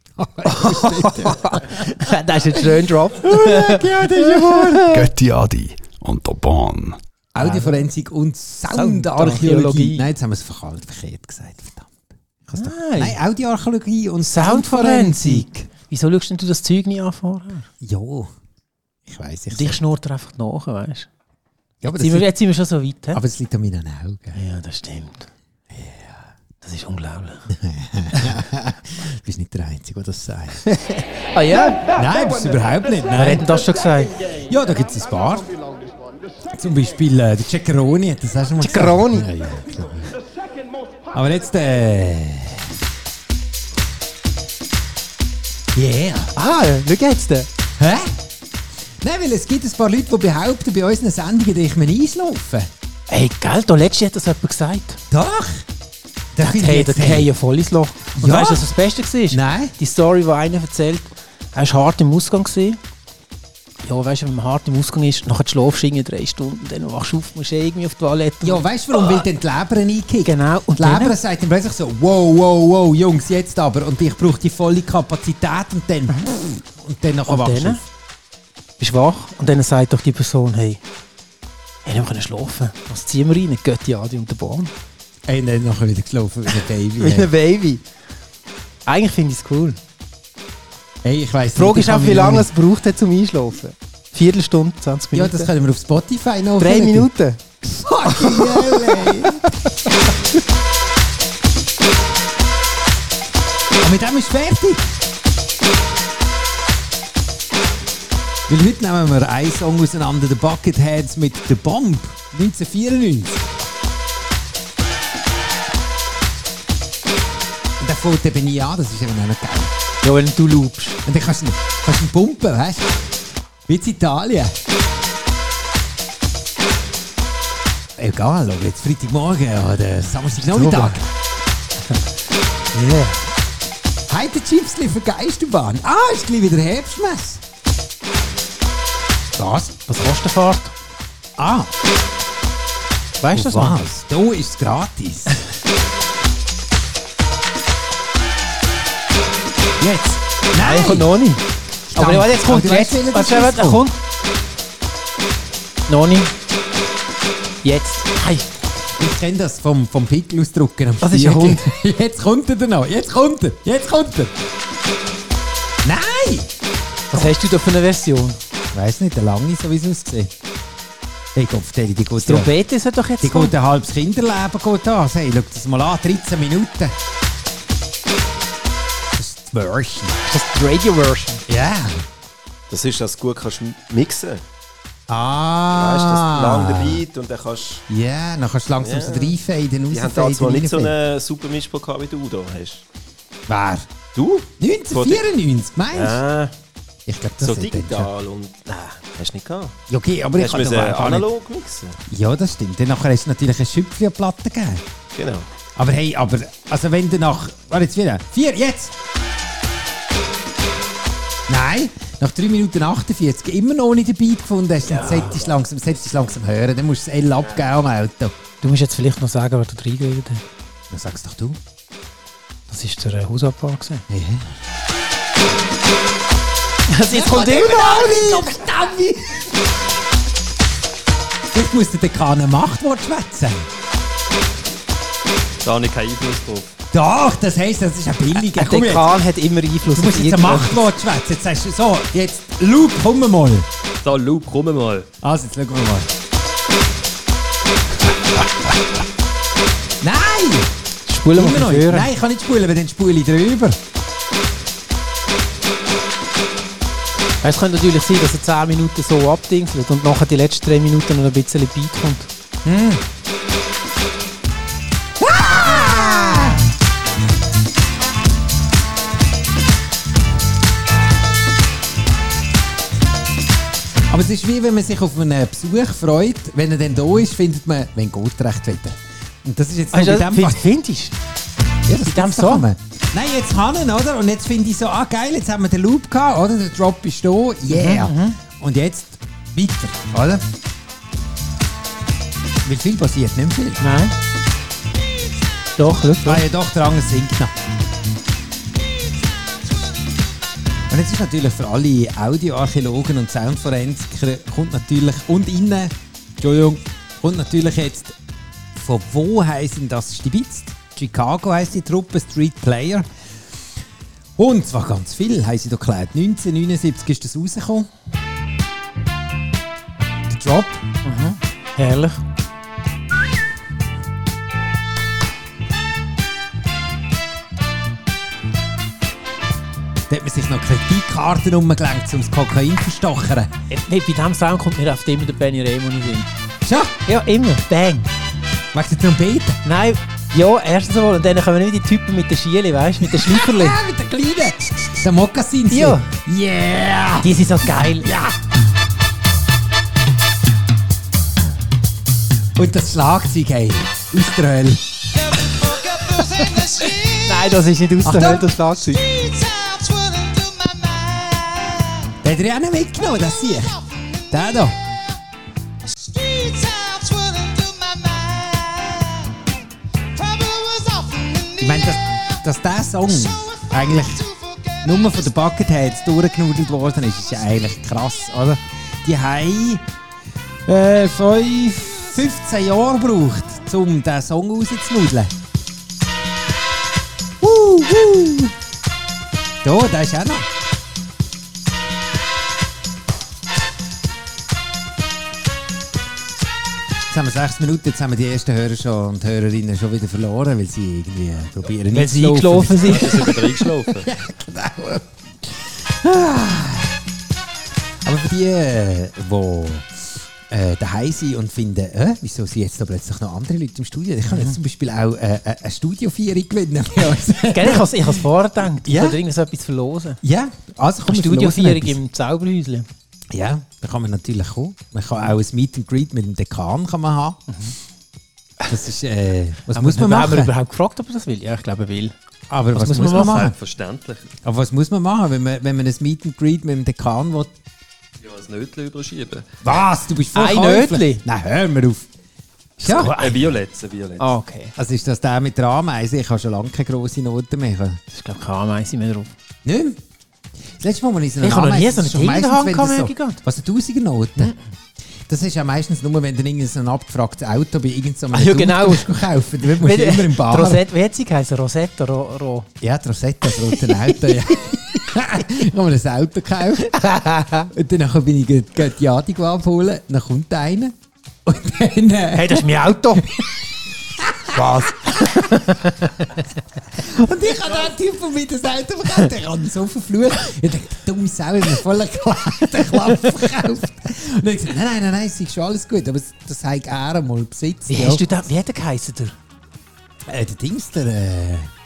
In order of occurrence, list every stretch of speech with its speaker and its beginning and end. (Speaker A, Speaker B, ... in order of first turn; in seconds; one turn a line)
Speaker A: 0.2-1.9
Speaker B: 0.4-5.1
Speaker A: 2.6-4.9
Speaker C: 4.9-7.0
Speaker A: 7.3-15.7
Speaker B: 7.4-7.8
Speaker B: 8.7-10.1
Speaker B: 12.6-13.2
Speaker B: 14.3-17.7
Speaker A: 17.8-18.3
Speaker A: 19.1-19.8
Speaker B: 19.5-21.1
Speaker A: 21.8-22.3
Speaker B: 21.9-23.2
Speaker A: 23.1-24.4
Speaker B: 24.4-25.3
Speaker A: 25.7-26.3
Speaker B: 26.6-27.5
Speaker A: 27.5-30.6
Speaker B: 30.6-31.9
Speaker A: 31.9-33.5
Speaker B: 33.2-34.1
Speaker A: 34.5-35.5
Speaker A: 36.5-40.1
Speaker B: 38.6-39.3
Speaker A: 41.1-42.7
Speaker A: 45.7-46.3
Speaker B: 46.3-47.5
Speaker A: 47.8-48.1
Speaker A: 49.0-52.7
Speaker B: 53.1-55.0
Speaker A: 55.1-55.7
Speaker A: 56.3-57.3
Speaker B: 56.4-62.8
Speaker A: 58.2-58.7
Speaker A: 59.3-59.7
Speaker B: 63.8-68.6
Speaker A: 68.4-77.8
Speaker B: 70.2-71.2
Speaker B: 77.3-77.8
Speaker B: 78.8-80.8
Speaker B: 81.8-84.7
Speaker A: 85.3-87.3
Speaker B: 86.5-87.8
Speaker B: 88.8-89.8
Speaker A: 91.0-92.5
Speaker B: 91.5-95.5
Speaker A: 95.1-97.1
Speaker B: 96.6-97.4
Speaker A: 97.6-99.5
Speaker B: 98.0-99.5
Speaker A: 103.8-104.9
Speaker A: 108.5-113.5
Speaker A: 117.8-119.7
Speaker B: 120.0-121.0
Speaker A: 121.0-122.9
Speaker A: 123.7-124.5
Speaker A: 128.0-131.0
Speaker B: 130.5-131.0
Speaker B: 132.7-133.2
Speaker A: 134.1-137.4
Speaker A: 139.3-139.8
Speaker B: 139.9-140.8
Speaker A: 141.4-141.7
Speaker B: 143.2-143.8
Speaker A: 143.3-145.4
Speaker A: 149.8-151.1
Speaker B: 150.6-154.0
Speaker A: 151.9-153.9
Speaker B: 155.9-156.3
Speaker B: 157.6-158.5
Speaker A: 159.0-164.3
Speaker B: 161.0-161.6
Speaker A: 165.8-166.5
Speaker B: 167.1-168.4
Speaker A: 168.7-170.3
Speaker A: 171.3-172.5
Speaker B: 172.2-173.5
Speaker A: 173.2-176.9
Speaker A: 179.1-180.2
Speaker B: 180.2-181.4
Speaker A: 181.5-182.1
Speaker D: 182.7-184.4
Speaker A: 185.1-187.0
Speaker D: 185.7-187.8
Speaker A: 187.9-190.9
Speaker D: 188.8-189.3
Speaker D: 189.9-192.8
Speaker A: 193.5-193.9
Speaker D: 194.1-195.2
Speaker A: 194.6-196.2
Speaker D: 195.9-196.5
Speaker A: 197.1-198.1
Speaker D: 197.4-199.8
Speaker A: 199.9-201.3
Speaker D: 200.4-202.0
Speaker A: 202.1-204.8
Speaker D: 205.1-205.5
Speaker A: 205.8-208.9
Speaker A: 211.5-218.3
Speaker B: 214.8-215.4
Speaker B: 218.6-220.4
Speaker A: 220.9-221.6
Speaker B: 222.7-224.0
Speaker A: 224.1-224.5
Speaker B: 226.9-228.5
Speaker A: 227.1-229.5
Speaker A: 231.5-233.7
Speaker E: 235.6-236.7
Speaker A: 236.9-239.2
Speaker B: 238.3-240.8
Speaker A: 239.9-243.7
Speaker E: 244.0-245.1
Speaker A: 245.2-246.1
Speaker A: 250.0-250.7
Speaker B: 251.1-252.1
Speaker A: 251.3-253.8
Speaker B: 257.4-262.3
Speaker A: 262.6-263.0
Speaker A: 265.2-266.7
Speaker A: 274.1-280.7
Speaker B: 279.9-281.2
Speaker A: 281.9-290.4
Speaker B: 282.0-282.7
Speaker B: 287.7-288.4
Speaker A: 292.6-293.8
Speaker B: 293.8-294.1
Speaker B: 295.8-296.4
Speaker A: 296.2-297.5
Speaker A: 300.9-308.2
Speaker A: 308.8-313.1
Speaker A: 314.4-317.9
Speaker A: 320.3-320.8
Speaker B: 321.0-322.2
Speaker A: 330.1-333.5
Speaker B: 333.7-336.3
Speaker A: 336.6-337.0
Speaker B: 337.1-338.1
Speaker A: 338.7-339.6
Speaker B: 339.6-343.8
Speaker A: 343.1-348.4
Speaker B: 345.7-346.1
Speaker B: 347.2-348.1
Speaker A: 352.6-357.1
Speaker B: 357.1-359.1
Speaker A: 358.0-358.6
Speaker A: 362.2-364.8
Speaker A: 371.6-374.3
Speaker A: 374.8-379.9
Speaker A: 380.7-385.3
Speaker A: 387.4-388.5
Speaker A: 389.6-390.5
Speaker A: 397.1-407.0
Speaker B: 401.9-403.3
Speaker E: 402.8-404.1
Speaker A: 408.0-418.2
Speaker B: 414.3-414.6
Speaker B: 417.5-420.2
Speaker A: 418.8-419.2
Speaker A: 420.2-422.0
Speaker B: 421.1-422.9
Speaker A: 423.3-427.4
Speaker A: 428.7-430.5
Speaker B: 429.7-432.1
Speaker A: 432.5-433.6
Speaker B: 432.8-433.4
Speaker E: 433.0-434.4
Speaker A: 434.4-437.5
Speaker E: 438.2-439.6
Speaker A: 439.6-442.1
Speaker B: 440.3-441.2
Speaker A: 442.8-443.2
Speaker B: 442.8-443.5
Speaker E: 442.9-444.3
Speaker B: 444.2-444.7
Speaker A: 444.8-448.0
Speaker B: 448.1-449.3
Speaker A: 449.6-450.0
Speaker A: 450.8-454.6
Speaker B: 451.4-453.4
Speaker A: 455.3-460.8
Speaker B: 458.3-462.7
Speaker A: 462.8-473.5
Speaker B: 467.0-467.7
Speaker B: 472.3-473.4
Speaker A: 474.2-475.7
Speaker B: 474.5-476.3
Speaker A: 476.9-488.3
Speaker B: 487.9-489.4
Speaker A: 490.2-491.7